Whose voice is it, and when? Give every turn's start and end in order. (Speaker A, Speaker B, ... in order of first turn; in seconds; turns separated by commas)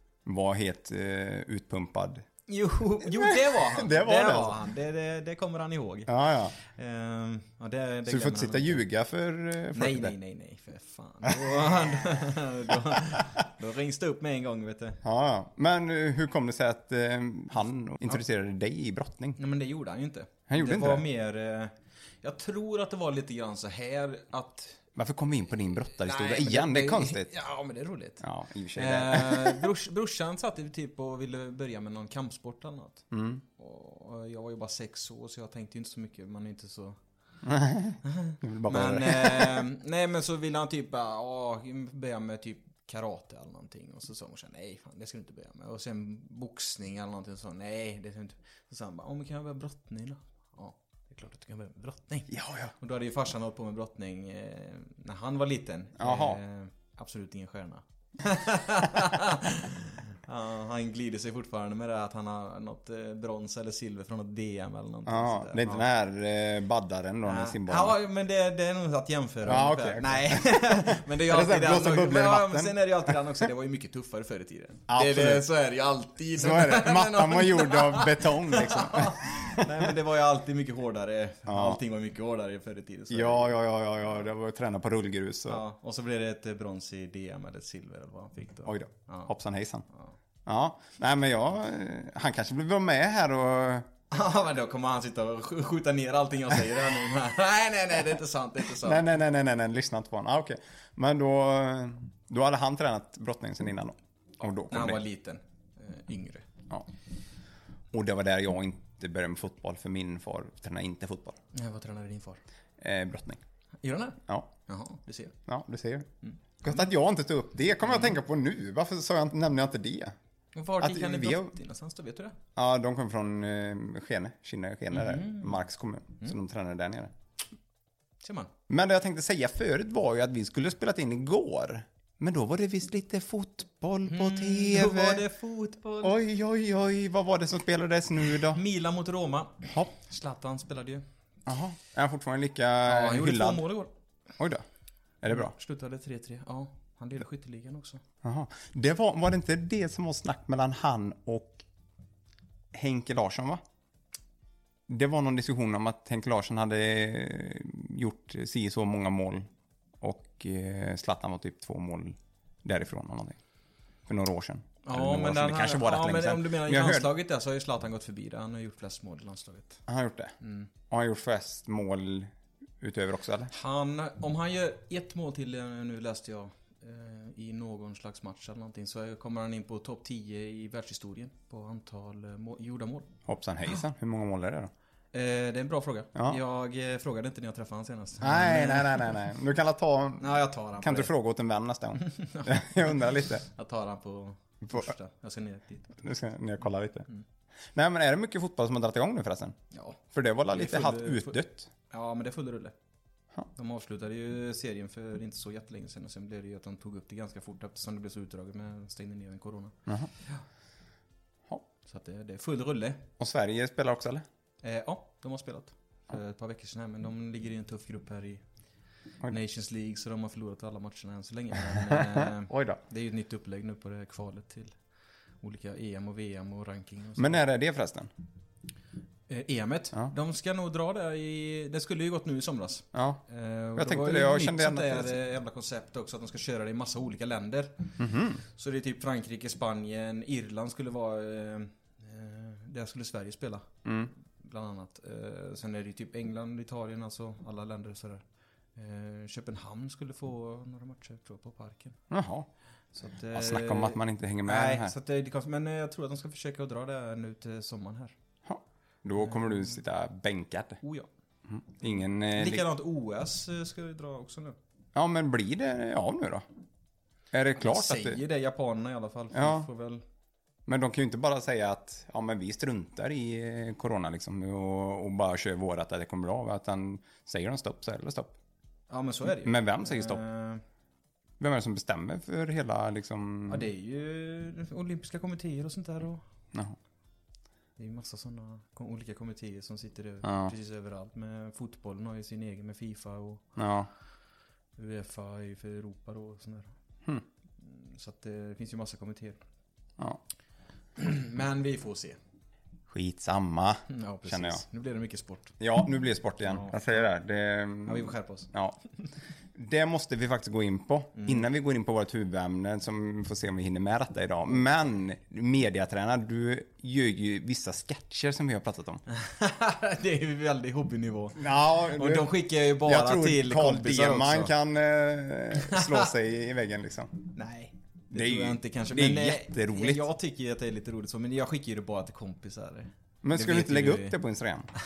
Speaker A: 0.2-2.2, Speaker B: 2.5-8.8, Speaker A: 3.0-4.6, Speaker A: 6.1-6.5, Speaker A: 8.1-10.2, Speaker B: 9.7-15.0, Speaker A: 11.3-11.8, Speaker A: 15.0-19.4, Speaker B: 19.4-24.8, Speaker A: 20.5-21.0, Speaker A: 24.9-27.3, Speaker B: 26.0-28.2, Speaker A: 28.2-29.6, Speaker B: 28.7-37.0, Speaker A: 33.1-33.4, Speaker A: 37.5-39.6, Speaker B: 38.0-65.8, Speaker A: 52.3-52.7, Speaker A: 56.0-56.4, Speaker A: 65.1-68.0, Speaker B: 67.2-83.5, Speaker A: 69.5-73.2, Speaker A: 74.9-75.5, Speaker A: 76.3-79.9, Speaker A: 81.5-81.8, Speaker A: 83.1-85.6, Speaker B: 85.5-89.3, Speaker A: 88.7-89.9, Speaker A: 90.5-93.9, Speaker B: 94.1-99.0, Speaker A: 98.7-105.0, Speaker B: 104.7-106.5, Speaker A: 107.9-111.4, Speaker B: 111.5-112.4, Speaker A: 112.8-113.4, Speaker B: 113.8-115.4, Speaker A: 115.5-120.2, Speaker B: 120.5-122.4, Speaker A: 120.8-121.5, Speaker A: 122.6-127.1, Speaker B: 124.9-125.6, Speaker B: 128.2-128.5, Speaker A: 128.7-135.3, Speaker B: 134.1-136.2, Speaker A: 136.0-138.6, Speaker B: 138.5-141.0, Speaker A: 141.5-143.7, Speaker B: 142.8-143.9, Speaker A: 144.4-144.6, Speaker A: 145.2-145.5, Speaker B: 145.3-148.0, Speaker A: 148.2-151.6, Speaker A: 152.7-153.6, Speaker A: 154.9-159.5, Speaker A: 160.0-163.4, Speaker A: 164.1-167.1, Speaker B: 164.8-169.8, Speaker A: 169.9-170.3, Speaker B: 170.4-170.7, Speaker A: 170.9-173.5, Speaker B: 173.5-183.1, Speaker A: 183.3-184.7, Speaker B: 185.1-189.1, Speaker A: 188.2-190.3, Speaker B: 190.2-191.1, Speaker A: 190.8-193.4, Speaker B: 192.0-196.0, Speaker A: 196.0-197.1, Speaker A: 197.7-199.6, Speaker B: 199.7-200.0, Speaker A: 200.1-201.7, Speaker B: 200.5-201.4, Speaker B: 201.9-202.8, Speaker B: 203.5-210.4, Speaker B: 211.9-213.0, Speaker A: 213.2-214.2, Speaker B: 214.6-218.4, Speaker B: 219.2-224.8, Speaker A: 221.7-222.8, Speaker B: 225.4-227.4, Speaker A: 227.2-228.1, Speaker B: 229.3-237.9, Speaker A: 232.9-233.2, Speaker A: 233.8-235.2, Speaker A: 238.0-238.4, Speaker B: 238.4-243.7, Speaker A: 243.8-244.1, Speaker B: 244.4-248.2, Speaker B: 248.8-252.0, Speaker A: 252.1-252.5, Speaker B: 252.9-258.1, Speaker A: 253.3-254.9, Speaker A: 258.4-260.8, Speaker B: 259.2-259.7, Speaker B: 260.8-261.1, Speaker A: 261.5-262.7, Speaker B: 262.4-264.6, Speaker A: 264.9-266.5, Speaker A: 267.3-268.2, Speaker B: 267.6-270.0, Speaker A: 269.3-269.7, Speaker A: 270.7-278.3, Speaker B: 278.9-280.6, Speaker A: 279.3-280.2, Speaker A: 281.4-283.7, Speaker B: 283.5-286.2, Speaker B: 287.8-293.4, Speaker A: 290.2-290.5, Speaker A: 293.6-293.9, Speaker B: 294.8-296.7, Speaker B: 297.6-299.4, Speaker B: 301.0-302.2, Speaker A: 302.9-304.6, Speaker B: 303.9-305.6, Speaker A: 305.6-308.8, Speaker B: 306.5-307.1, Speaker B: 307.9-308.5, Speaker A: 309.6-319.0, Speaker B: 311.2-311.4, Speaker B: 319.1-324.5, Speaker A: 321.4-327.1, Speaker B: 325.6-326.1, Speaker B: 327.3-334.2, Speaker A: 328.1-330.1, Speaker A: 333.2-334.7